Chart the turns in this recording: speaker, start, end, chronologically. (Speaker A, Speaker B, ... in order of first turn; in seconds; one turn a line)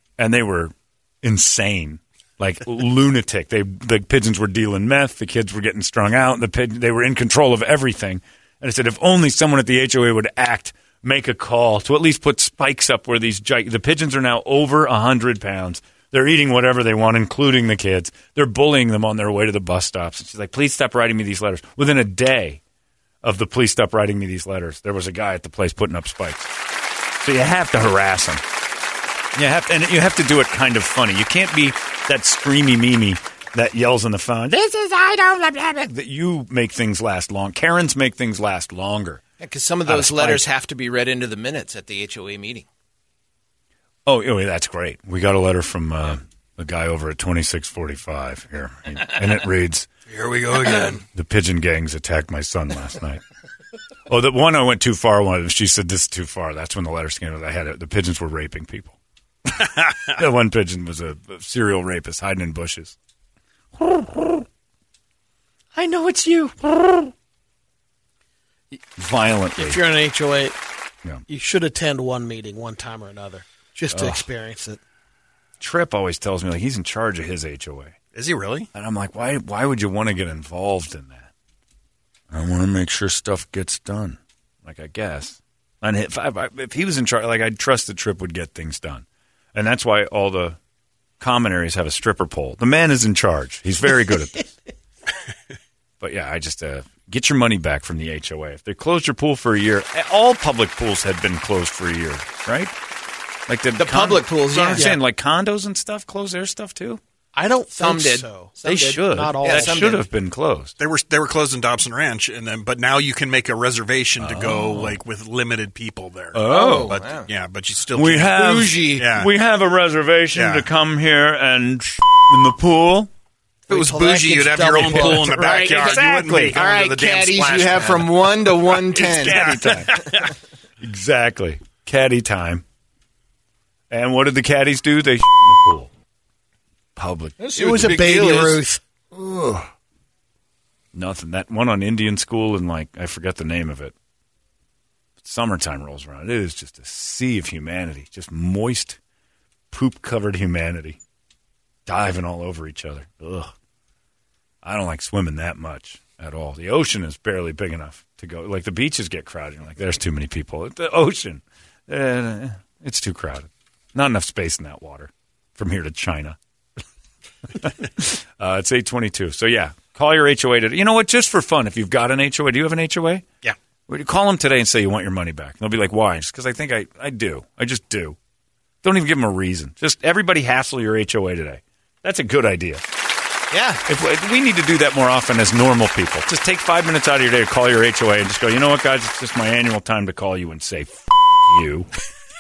Speaker A: 0.2-22.6
Speaker A: 23.2-26.5
Speaker A: 27.2-28.4
Speaker A: 29.4-39.2
Speaker B: 39.4-42.7
Speaker A: 39.9-40.5
Speaker A: 44.1-49.9
Speaker B: 50.1-51.0
Speaker A: 51.0-53.2
Speaker A: 54.1-63.0
Speaker A: 63.8-64.4
Speaker A: 65.7-67.1
Speaker A: 69.0-69.8
Speaker C: 69.6-70.6
Speaker C: 71.3-74.8
Speaker A: 73.9-74.2
Speaker A: 75.6-78.0
Speaker D: 78.1-78.7
Speaker A: 78.7-81.3
Speaker A: 82.3-90.6
Speaker A: 91.2-94.5
Speaker A: 96.0-102.7
Speaker A: 103.5-107.0
Speaker B: 103.8-104.9
Speaker C: 104.7-105.0
Speaker C: 107.3-108.6
Speaker B: 107.8-110.0
Speaker A: 108.6-110.7
Speaker C: 109.1-109.9
Speaker D: 110.8-118.3
Speaker A: 114.2-115.0
Speaker A: 116.3-117.0
Speaker B: 116.4-117.3
Speaker A: 117.9-123.1
Speaker B: 118.3-119.1
Speaker D: 119.0-119.3
Speaker D: 120.3-120.7
Speaker D: 123.7-130.3
Speaker C: 123.7-125.4
Speaker B: 124.9-125.7
Speaker A: 125.1-126.5
Speaker B: 126.4-129.5
Speaker A: 128.9-130.0
Speaker A: 130.8-132.6
Speaker A: 133.9-135.9
Speaker A: 137.0-137.4
Speaker B: 137.4-138.6
Speaker C: 137.6-138.8
Speaker B: 139.2-139.6
Speaker A: 140.9-143.9
Speaker A: 145.2-149.0
Speaker A: 149.7-151.0
Speaker A: 151.9-153.5
Speaker A: 154.6-166.4
Speaker A: 167.5-173.2
Speaker A: 173.9-178.2
Speaker A: 178.8-182.8
Speaker B: 183.5-183.8
Speaker A: 183.9-191.9